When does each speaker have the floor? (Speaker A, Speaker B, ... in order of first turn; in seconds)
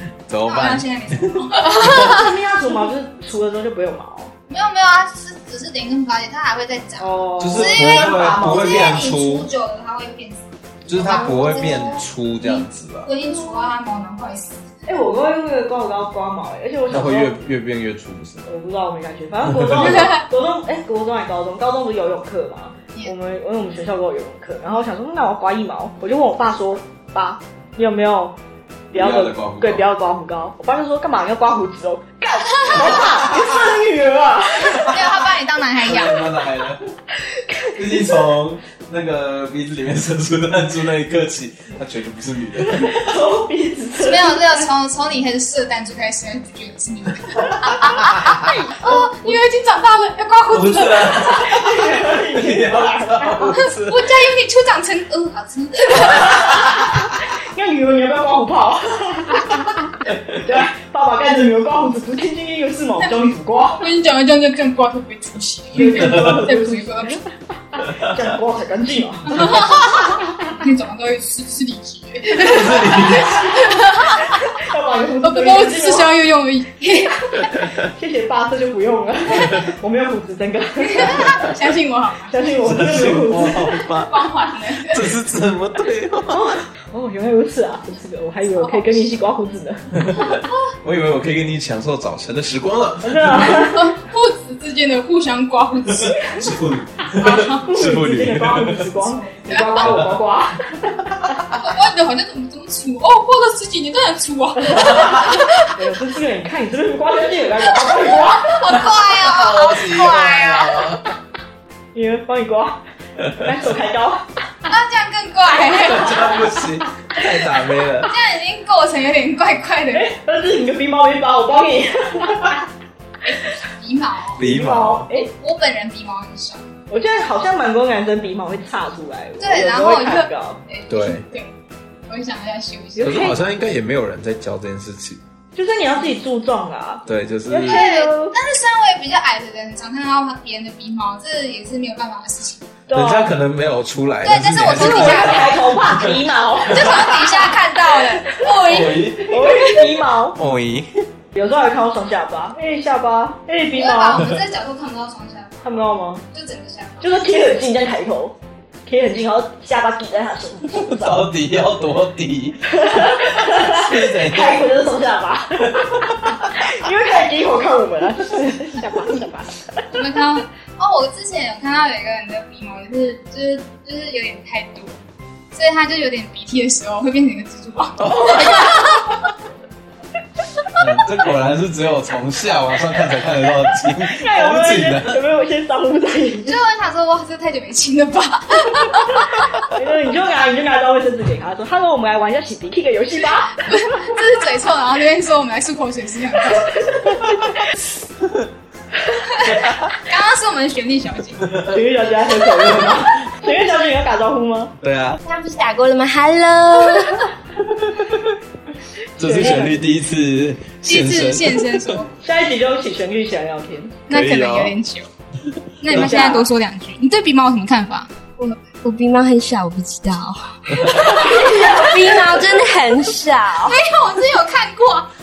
Speaker A: 0.3-2.2, 7.4-9.5, 10.9-13.1, 16.9-18.5, 19.5-20.1, 28.9-29.9, 33.1-33.6, 35.8-36.8, 37.7-43.1, 47.6-48.2, 50.5-54.3, 65.8-66.5, 67.8-68.2, 72.3-73.6, 82.6-86.6, 89.9-93.7, 95.9-99.0, 99.8-100.1, 101.1-101.4, 104.9-105.3, 108.7-111.2, 115.8-118.1, 124.4-125.1, 130.9-131.2, 133.0-135.2, 137.1-137.8, 142.9-146.2, 148.7-149.8, 150.3-151.1, 160.8-164.7, 165.7-166.5, 178.0-178.8, 180.7-185.2, 198.2-198.5, 199.6-199.9, 201.4-201.8, 202.5-203.0, 204.8-205.2, 207.7-208.3, 209.2-212.0, 214.1-214.7, 215.9-216.3
Speaker B: 0.5-2.4, 4.5-14.9, 19.9-20.2, 34.7-36.3, 44.0-51.5, 53.5-56.8, 63.8-67.2, 69.3-74.7, 75.2-77.6, 80.8-82.5, 84.0-85.2, 88.6-89.1, 90.2-90.7, 93.6-97.7, 99.2-100.0, 101.5-105.8, 107.7-111.0, 114.7-116.6, 118.0-120.2, 123.2-124.4, 125.1-126.6, 129.4-133.3, 137.7-142.7, 144.2-145.6, 146.7-149.9, 153.7-157.3, 169.9-175.0, 175.5-179.3, 180.6-180.8, 186.4-189.7, 193.5-197.3, 199.3-201.5, 210.8-212.1, 214.1-215.1, 215.8-218.6, 223.6-225.1
Speaker C: 1.8-4.3, 7.0-9.1, 11.0-11.3, 13.2-13.7, 14.9-17.4, 18.5-28.4, 28.9-35.3, 37.1-38.3, 42.7-44.7, 48.3-49.4, 51.4-53.6, 56.1-56.5, 57.1-63.9, 65.8-70.4, 74.1-76.1, 76.9-81.5, 82.3-83.8, 86.3-90.0, 93.0-93.9, 97.6-101.4, 104.7-108.8, 111.9-112.8, 113.3-114.3, 119.9-122.7, 124.4-125.3, 126.9-130.6, 133.0-133.4, 135.6-138.4, 142.9-143.4, 144.7-148.2, 149.2-150.4, 151.3-154.4, 155.6-156.2, 157.0-161.3, 162.7-169.8, 178.2-178.7, 184.0-186.6, 189.7-193.9, 199.5-199.8, 201.7-204.8, 209.2-209.8, 212.2-214.1, 215.9-216.5, 221.0-222.2
Speaker D: 205.2-207.3, 218.8-223.8